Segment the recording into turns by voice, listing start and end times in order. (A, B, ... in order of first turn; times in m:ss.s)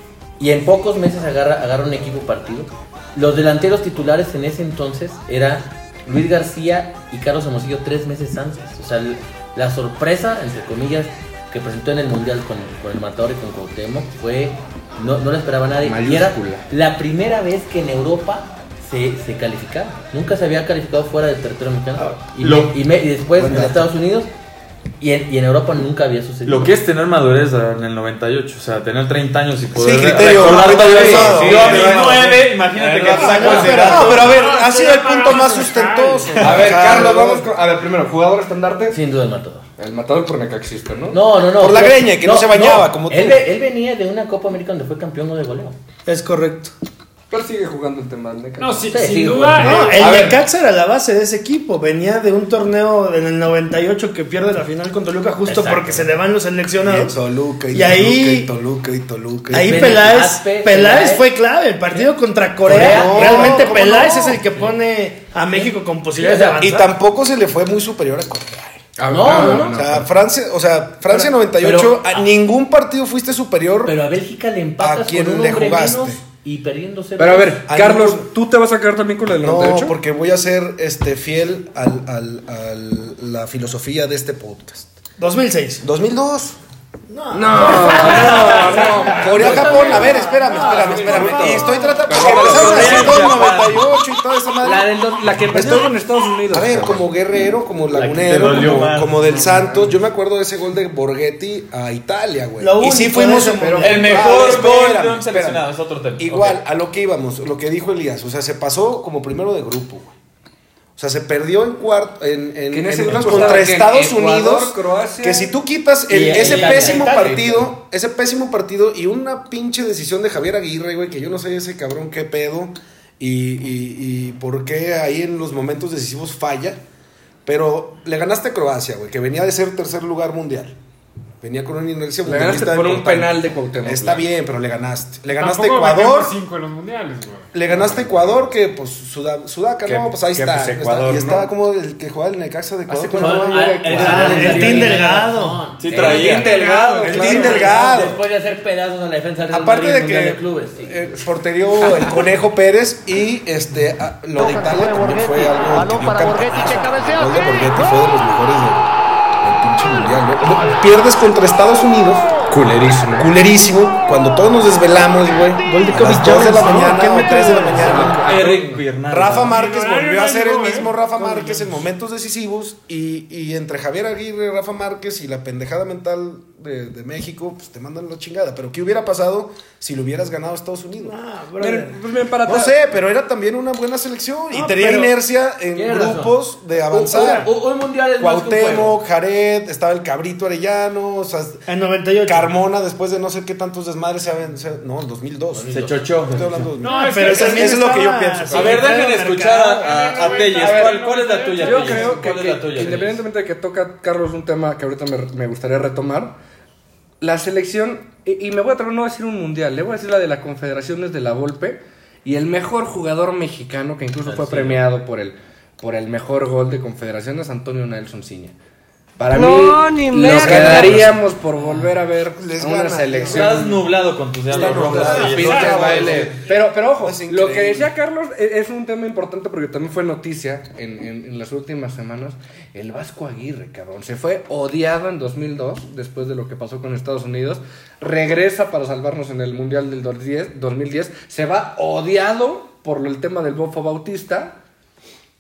0:00.4-0:24.3 A
0:15.8-0:16.7 B
0:22.4-0:22.8 C
0:23.4-0:23.8 D
0:25.0-0:26.7 A
0:26.4-0:34.4 C
0:29.8-0:37.5 D
0:30.5-0:33.7 B
0:30.9-0:31.3 A
0:33.1-0:34.3 E
0:34.2-0:36.7 F
0:36.4-0:36.7 C
0:36.4-0:39.0 B
0:38.9-0:39.7 A
0:39.8-0:41.2 B
0:41.1-0:45.8 A
0:41.5-0:43.4 D
0:46.1-0:46.7 E
0:47.3-0:48.9 B
0:48.6-0:50.1 F
0:48.9-0:50.0 A
0:49.7-0:57.2 E
0:50.0-0:50.4 B
0:55.4-0:56.1 A
0:56.8-1:00.0 D
0:57.7-0:58.5 E
0:59.5-1:07.0 E
0:59.5-1:01.3 A
1:02.6-1:04.8 A
1:02.7-1:04.4 D
1:05.5-1:06.6 A
1:06.6-1:14.0 D
1:09.0-1:10.1 B
1:09.1-1:09.8 A
1:11.1-1:12.3 A
1:13.8-1:17.6 A
1:14.8-1:16.2 D
1:17.2-1:20.0 B
1:17.7-1:18.3 D
1:19.4-1:24.9 D
1:25.2-1:25.8 E
1:25.8-1:26.6 D
1:27.1-1:33.1 E
1:27.3-1:29.9 B
1:27.6-1:31.0 A
1:29.1-1:34.9 D
1:30.5-1:33.5 B
1:32.3-1:33.8 C
1:34.6-1:35.9 A
1:35.2-1:37.0 B
1:36.5-1:45.6 D
1:38.0-1:38.5 A
1:38.0-1:39.3 C
1:42.6-1:44.6 E
1:43.6-1:44.5 B
1:43.8-1:46.6 C
1:46.2-1:50.1 D
1:51.0-2:06.8 D
1:52.7-1:55.5 B
1:53.3-1:53.6 E
1:56.1-1:57.1 A
1:56.3-1:57.7 E
1:56.5-1:57.4 B
2:07.4-2:10.7 D
2:11.4-2:16.4 D
2:12.2-2:14.3 B
2:15.3-2:17.5 F
2:17.5-2:24.8 D
2:17.7-2:18.4 B
2:19.8-2:21.5 B
2:22.9-2:25.1 B
2:23.2-2:26.2 A
2:23.9-2:25.6 E
2:25.8-2:26.5 C
2:25.9-2:27.8 B
2:26.4-2:27.7 F
2:27.0-2:28.2 D
2:27.0-2:31.2 A
2:29.5-2:38.9 D
2:39.4-2:42.3 D
2:42.5-2:43.3 B
2:43.2-3:01.2 D
2:45.6-2:48.3 E
2:47.8-2:48.8 B
2:48.2-2:49.6 C
2:49.5-2:51.8 F
3:01.0-3:02.0 E
3:01.6-3:02.8 B
3:02.4-3:07.5 D
3:04.5-3:05.1 E
3:05.7-3:09.0 A
3:07.1-3:07.5 E
3:08.2-3:11.6 D
3:11.7-3:12.5 E
3:12.2-3:15.7 D
3:15.5-3:16.7 A
3:15.7-3:16.5 C
3:16.3-3:19.1 D
3:16.8-3:17.8 F
3:16.8-3:19.9 E
3:18.5-3:23.2 C
3:19.8-3:22.2 F
3:20.6-3:21.0 B
3:21.6-3:26.4 B
3:27.2-3:38.6 B
3:34.3-3:34.8 A
3:39.2-3:43.8 B
3:39.9-3:41.2 D
3:42.2-3:43.7 D
3:43.3-3:46.0 C
3:44.5-3:47.9 D
3:44.6-4:04.6 B
3:45.4-3:46.2 F